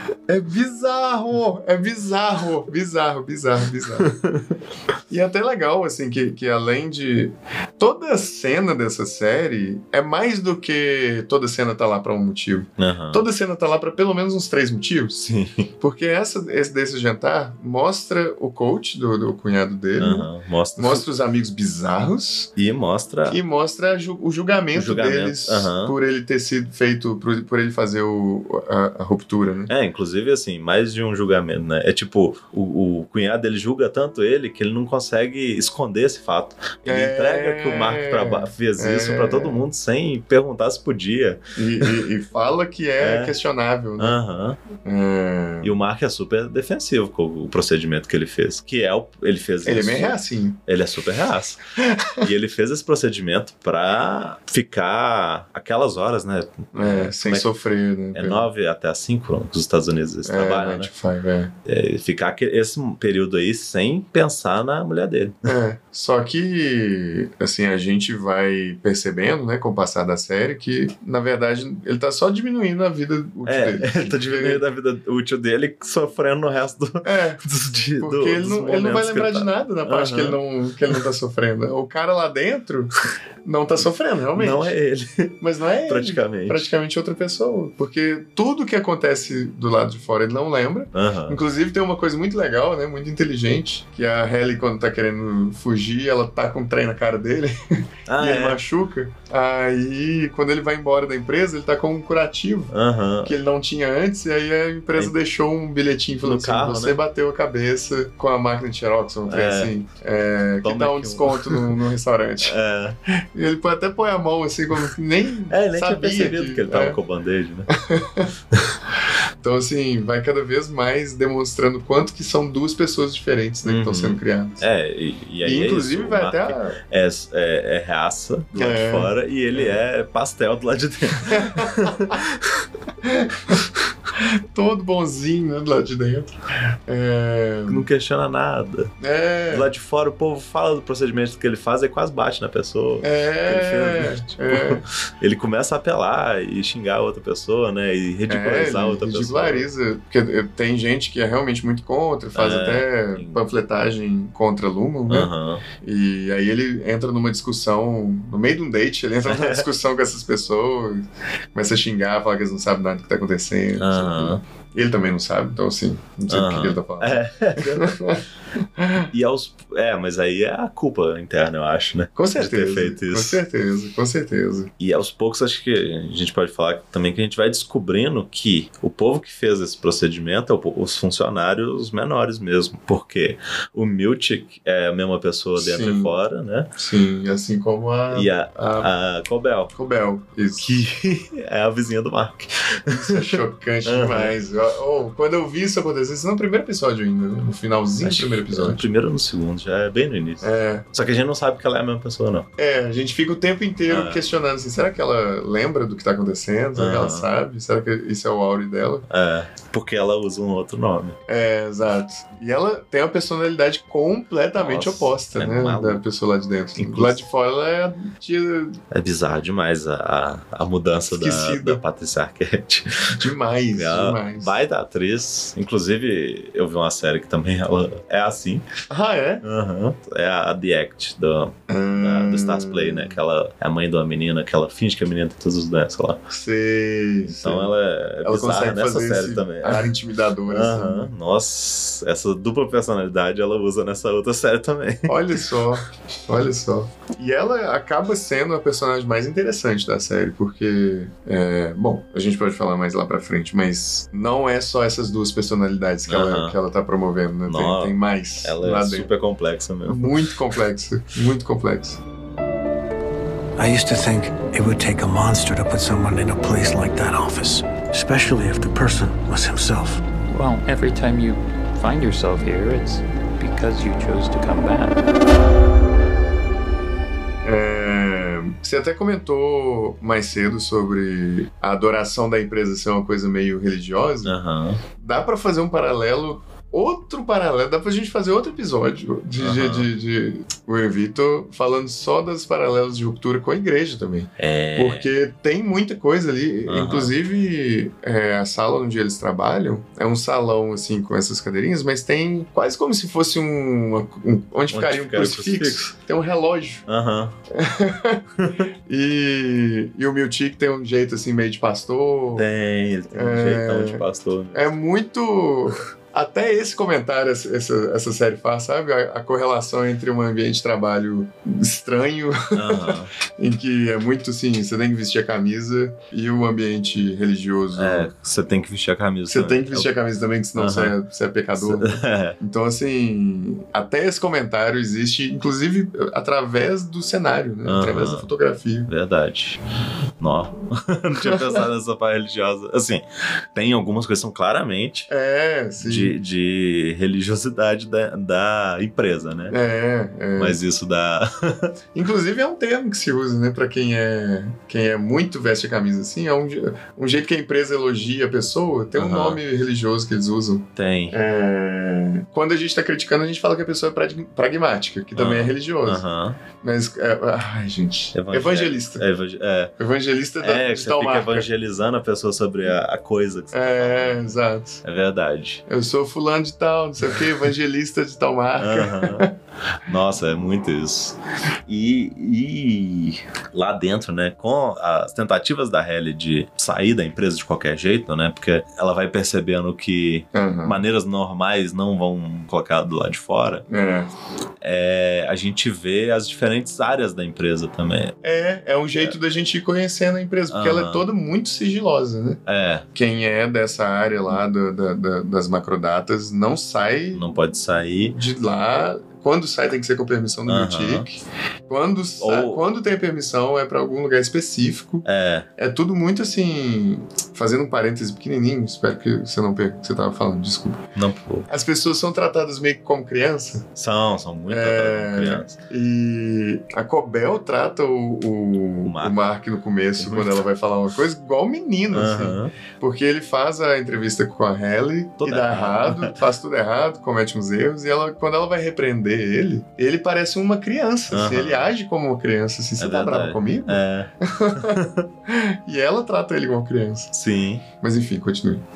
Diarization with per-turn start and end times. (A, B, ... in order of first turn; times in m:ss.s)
0:00.3-0:04.1 A
0:04.0-0:04.4 B
0:05.1-0:15.2 A
0:12.8-0:13.2 B
0:15.2-0:15.7 B
0:15.8-0:22.5 A
0:20.0-0:21.0 B
0:22.6-0:23.4 B
0:23.3-0:29.7 A
0:24.8-0:26.0 B
0:29.7-0:42.1 B
0:36.8-0:39.6 A
0:41.6-0:44.2 A
0:43.0-0:43.4 B
0:44.0-0:44.6 B
0:44.8-0:45.7 A
0:45.6-0:50.2 B
0:49.6-0:50.6 A
0:50.7-0:51.6 B
0:51.8-0:52.2 A
0:52.2-0:57.5 B
0:56.7-0:58.5 A
0:58.1-1:00.9 B
1:00.3-1:01.5 A
1:01.6-1:05.5 B
1:05.4-1:14.6 A
1:13.5-1:20.4 B
1:17.0-1:17.4 A
1:18.0-1:24.7 A
1:24.4-1:26.7 B
1:25.4-1:37.6 A
1:30.9-1:31.4 B
1:38.1-1:38.6 B
1:38.2-1:42.7 A
1:42.7-1:43.4 B
1:43.2-1:52.6 A
1:46.2-1:47.0 B
1:49.3-1:49.7 B
1:50.6-1:51.8 B
1:52.4-1:53.0 B
1:53.3-1:57.0 A
1:55.5-1:57.7 B
1:57.7-1:58.3 A
1:59.4-2:04.6 A
2:03.6-2:12.7 B
2:05.4-2:06.8 A
2:08.6-2:09.8 A
2:11.2-2:12.2 A
2:13.0-2:13.6 A
2:14.2-2:17.9 A
2:17.7-2:19.0 B
2:19.0-2:19.7 A
2:19.5-2:29.7 B
2:23.0-2:24.8 A
2:28.3-2:48.2 A
2:32.4-2:33.4 B
2:35.1-2:35.6 B
2:39.3-2:39.7 B
2:43.8-2:44.4 B
2:46.3-2:48.0 B
2:48.8-2:49.1 A
2:49.1-2:53.4 B
2:52.2-2:54.7 A
2:54.8-3:06.7 B
3:05.6-3:06.2 A
3:06.8-3:08.9 A
3:08.1-3:09.7 B
3:09.7-3:10.7 A
3:10.6-3:14.3 B
3:12.9-3:18.8 A
3:18.0-3:22.5 B
3:20.4-3:20.9 A
3:22.6-3:29.1 A
3:23.9-3:24.3 B
3:26.8-3:27.3 B
3:29.1-3:31.2 B
3:31.3-3:38.8 A
3:34.6-3:36.0 B
3:36.8-3:37.2 B
3:38.9-3:48.7 B
3:41.1-3:41.8 A
3:43.1-3:44.5 A
3:48.9-3:49.4 A
3:49.4-3:56.2 B
3:51.7-3:53.2 A
3:56.3-4:01.1 A
3:57.4-4:00.0 B
4:00.5-4:05.5 B
4:05.1-4:19.1 A
4:16.1-4:16.6 B
4:17.5-4:20.4 B
4:19.8-4:22.0 A
4:23.6-4:30.0 C
4:30.3-4:35.0 D
4:37.4-4:44.4 A
4:44.2-4:44.8 B
4:45.0-5:06.8 A
4:49.4-4:49.9 B
4:54.4-4:55.1 B
4:56.7-4:57.1 B
5:04.7-5:05.9 B
5:06.9-5:07.3 B
5:07.5-5:08.2 A
5:08.9-5:12.5 A
5:12.4-5:14.7 B
5:13.1-5:14.0 A
5:14.5-5:28.1 A
5:22.5-5:23.1 B
5:27.8-5:29.9 B
5:29.3-5:38.9 A
5:30.6-5:31.0 B
5:31.6-5:32.4 B
5:37.7-5:38.3 B
5:38.9-5:39.6 B
5:40.2-5:43.0 B
5:41.2-5:41.6 A
5:43.5-5:45.1 B
5:45.1-5:46.2 A
5:45.8-5:49.6 B
5:49.5-5:50.6 A
5:50.4-5:51.7 B
5:52.0-6:06.0 A
5:59.0-5:59.4 B
6:00.8-6:01.2 B
6:05.2-6:06.4 B
6:06.6-6:09.0 A
6:08.1-6:09.8 B
6:09.8-6:11.5 A
6:10.4-6:14.3 B
6:13.5-6:14.8 A
6:14.8-6:15.6 B
6:15.7-6:19.3 A
6:18.6-6:19.3 B
6:19.8-6:21.2 B
6:21.7-6:33.6 B
6:30.3-6:30.8 A
6:33.7-6:34.1 A
6:34.6-6:38.2 B
6:38.2-6:42.4 A
6:40.5-6:41.0 B
6:42.5-6:42.8 B
6:42.9-6:47.2 A
6:47.1-6:48.2 B
6:48.0-6:55.0 A
6:50.5-6:51.1 B
6:52.2-6:52.6 B
6:55.0-6:55.5 B
6:55.6-7:00.8 A
7:01.0-7:01.5 B
7:01.5-7:03.7 A
7:03.8-7:05.6 B
7:04.5-7:27.1 A
7:08.8-7:09.2 B
7:10.0-7:10.4 B
7:11.9-7:12.5 B
7:15.2-7:16.1 B
7:21.1-7:21.7 B
7:22.8-7:25.0 B
7:27.1-7:27.6 B
7:27.8-7:28.6 A